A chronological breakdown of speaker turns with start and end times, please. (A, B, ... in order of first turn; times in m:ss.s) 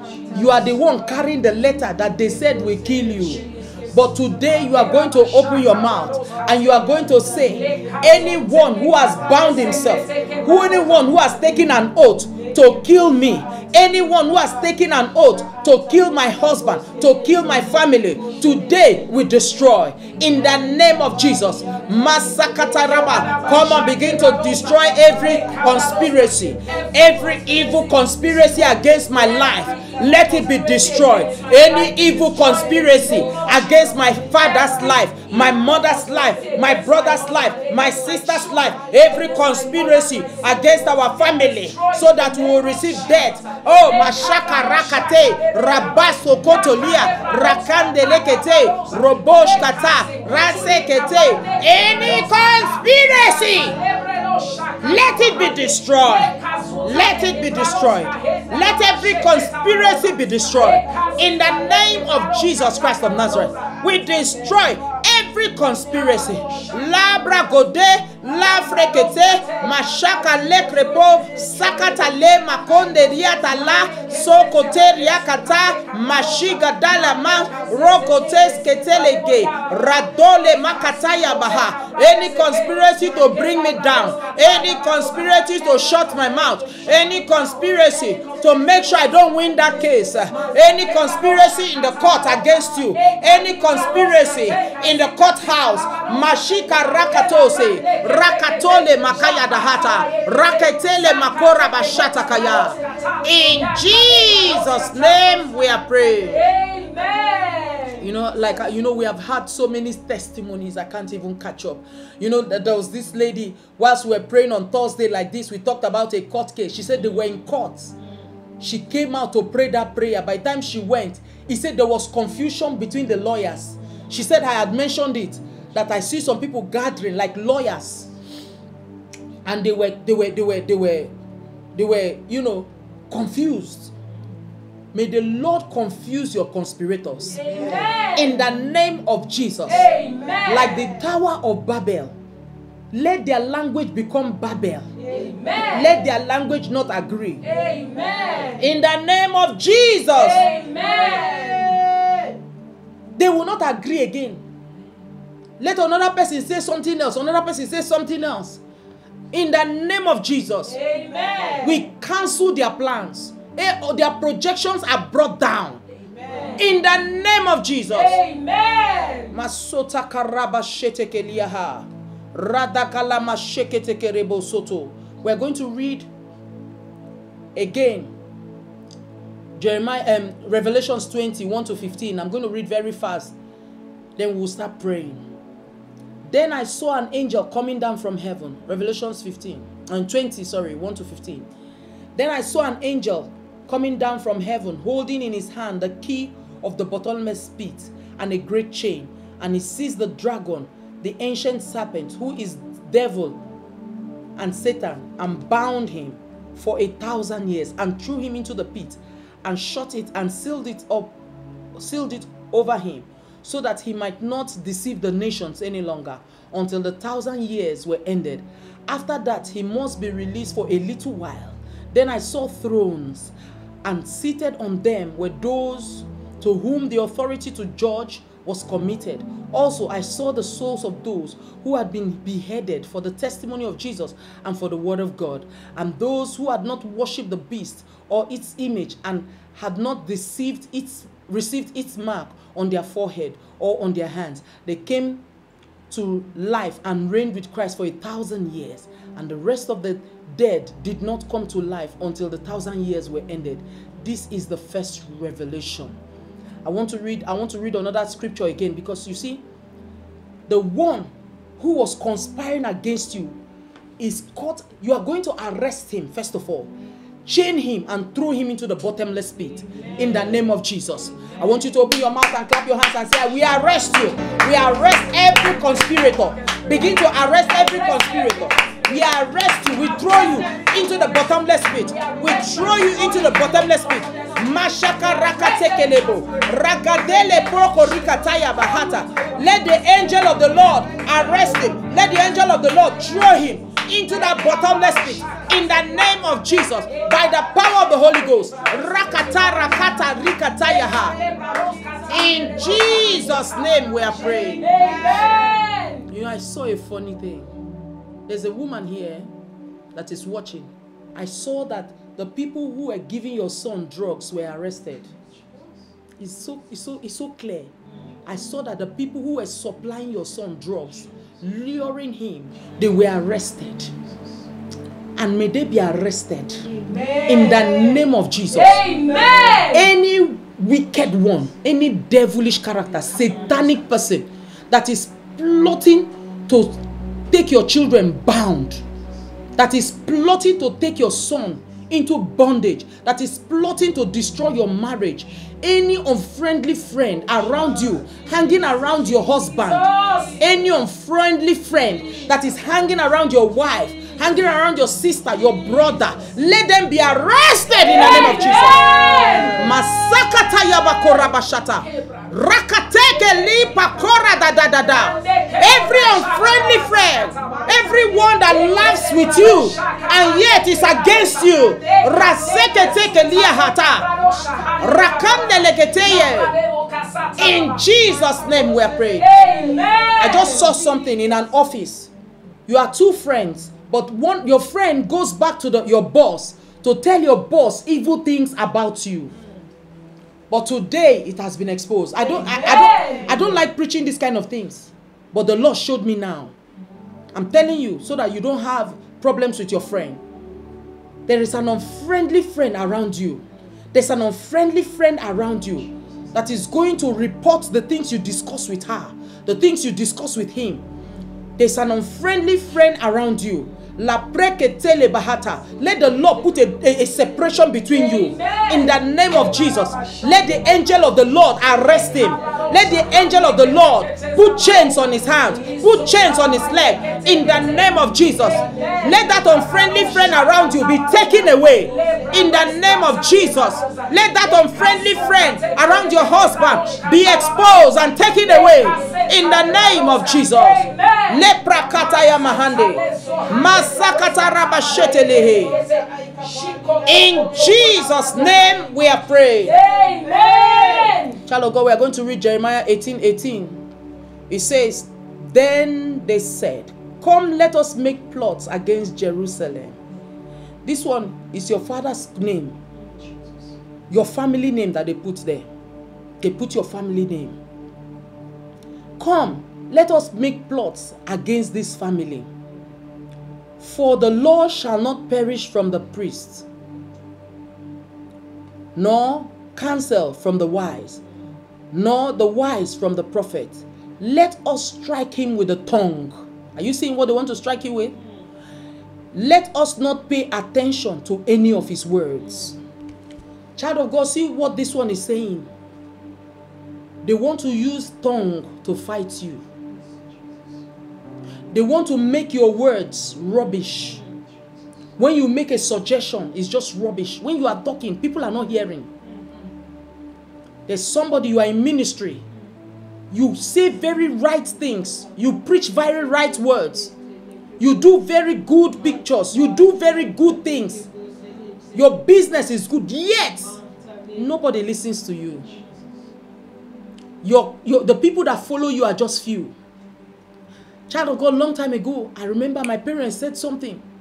0:00.3-0:53.8 A
0:03.4-0:03.7 B
0:04.7-0:06.8 B
0:07.5-0:11.1 B
0:21.7-0:27.9 B
0:29.2-1:03.8 B
0:54.8-1:46.5 A
1:06.1-1:06.8 B
1:08.6-1:12.1 B
1:13.1-1:15.6 B
1:17.0-1:25.9 B
1:27.1-1:28.4 B
1:30.3-1:32.0 B
1:32.9-1:45.4 B
1:46.3-1:48.1 B
1:48.0-1:58.0 A
1:58.6-2:08.1 A
2:09.4-2:11.1 A
2:11.8-2:13.9 A
2:14.9-2:17.6 A
2:17.3-2:18.4 B
2:18.1-2:19.9 A
2:19.7-2:20.9 B
2:20.4-2:22.2 A
2:22.9-2:24.9 A
2:25.0-2:26.0 B
2:25.6-2:27.4 A
2:27.4-2:28.6 B
2:28.6-2:30.5 A
2:30.1-2:31.8 B
2:33.2-2:34.4 A
2:35.6-2:38.6 A
2:39.3-2:40.8 A
2:40.7-2:41.8 B
2:41.6-2:45.8 A
2:46.1-2:46.6 B
2:46.6-2:48.2 A
2:47.9-2:49.3 B
2:49.3-2:56.1 A
2:57.6-2:58.1 A
2:59.6-3:03.3 A
3:04.2-3:05.2 A
3:06.3-3:11.5 A
3:12.2-3:23.4 A
3:24.4-3:31.2 A
3:31.8-4:05.2 A
4:05.9-4:16.0 A
4:16.6-4:19.4 A
4:20.5-4:23.4 A
4:24.0-4:26.7 A
4:27.2-5:01.2 A
4:34.6-4:35.8 B
4:36.6-4:41.2 B
4:41.8-4:49.4 B
4:51.2-4:51.5 B
4:54.3-4:55.9 B
4:56.7-5:00.0 B
5:00.6-5:06.1 B
5:02.1-5:04.9 A
5:06.1-5:07.5 A
5:08.3-5:09.3 A
5:09.9-5:15.1 A
5:16.2-5:17.7 A
5:18.3-5:23.9 A
5:25.2-5:26.7 A
5:26.7-5:29.9 B
5:27.3-5:28.8 A
5:29.7-5:38.8 A
5:39.6-6:14.1 A
5:49.5-5:50.4 B
5:57.9-5:59.7 B
6:01.9-6:02.2 B
6:03.5-6:03.9 B
6:04.9-6:18.0 B
6:14.7-6:16.6 A
6:17.4-6:19.4 A
6:19.1-6:20.8 B
6:20.2-6:22.1 A
6:22.7-6:29.3 A
6:30.5-6:36.5 A
6:32.2-6:33.4 B
6:37.3-6:40.2 A
6:41.3-6:50.8 A
6:51.6-7:25.8 A
6:57.9-7:00.4 B
7:01.9-7:28.7 B
7:27.0-7:29.8 A
7:29.6-7:31.4 B
7:31.4-7:33.8 A
7:34.5-7:40.0 A
7:40.8-7:42.8 A
7:44.1-7:45.6 A
7:46.4-7:47.6 A
7:49.2-7:52.5 A
7:53.8-7:56.6 A
7:59.0-8:01.2 A
8:01.9-8:08.2 A
8:09.3-8:12.8 A
8:13.8-8:15.7 A
8:17.2-8:19.6 A
8:21.7-8:24.2 A
8:25.2-8:29.1 A
8:30.9-8:32.4 A
8:33.3-8:37.1 A
8:37.8-8:41.0 A
8:41.9-8:43.8 A
8:44.3-8:45.7 A
8:47.4-8:49.7 A
8:51.1-8:54.0 A